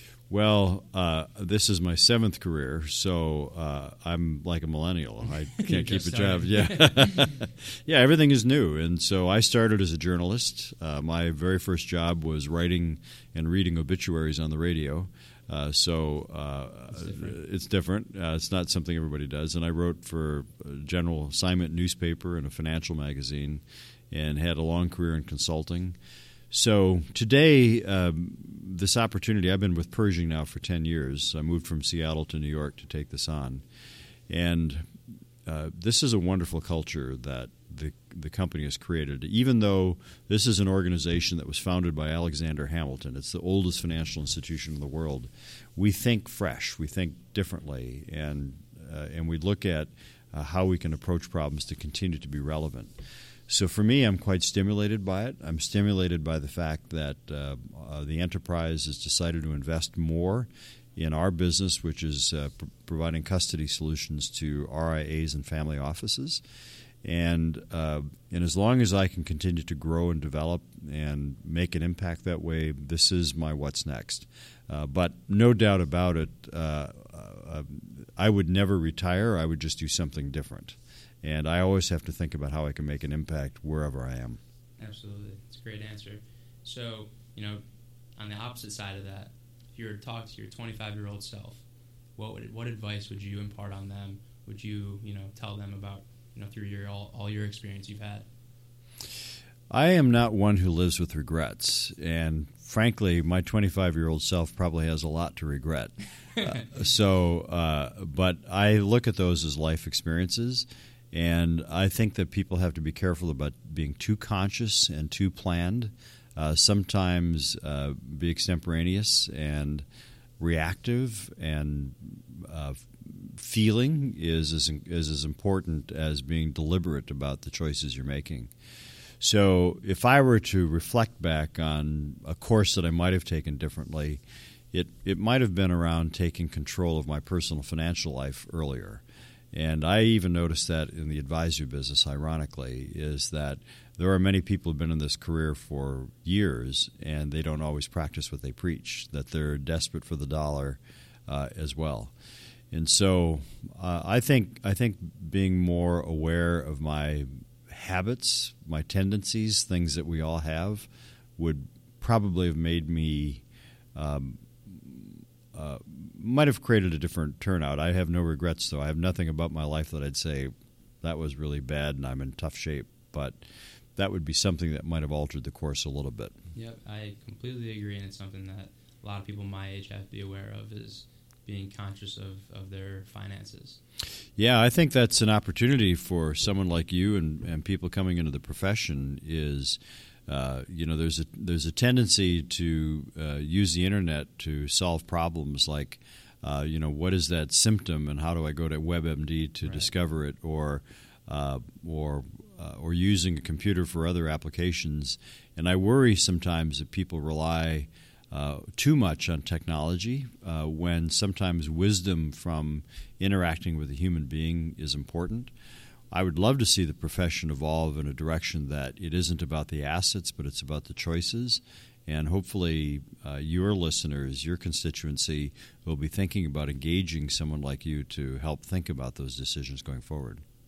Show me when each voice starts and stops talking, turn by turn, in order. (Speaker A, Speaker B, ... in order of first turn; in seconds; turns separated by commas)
Speaker A: 0.3-26.0, Speaker B: 5.6-7.2, Speaker B: 16.9-17.4, Speaker A: 26.5-33.6, Speaker A: 34.3-34.8, Speaker A: 35.5-52.9, Speaker A: 53.5-66.4, Speaker A: 67.0-84.4, Speaker B: 84.8-87.6, Speaker B: 88.2-91.6, Speaker B: 92.2-98.3, Speaker A: 99.7-119.8, Speaker A: 120.4-128.5, Speaker A: 129.2-152.1, Speaker A: 152.7-163.4, Speaker A: 164.0-173.4, Speaker A: 174.0-176.3, Speaker B: 176.5-183.8, Speaker A: 184.4-215.5, Speaker B: 199.6-199.9, Speaker A: 216.1-230.4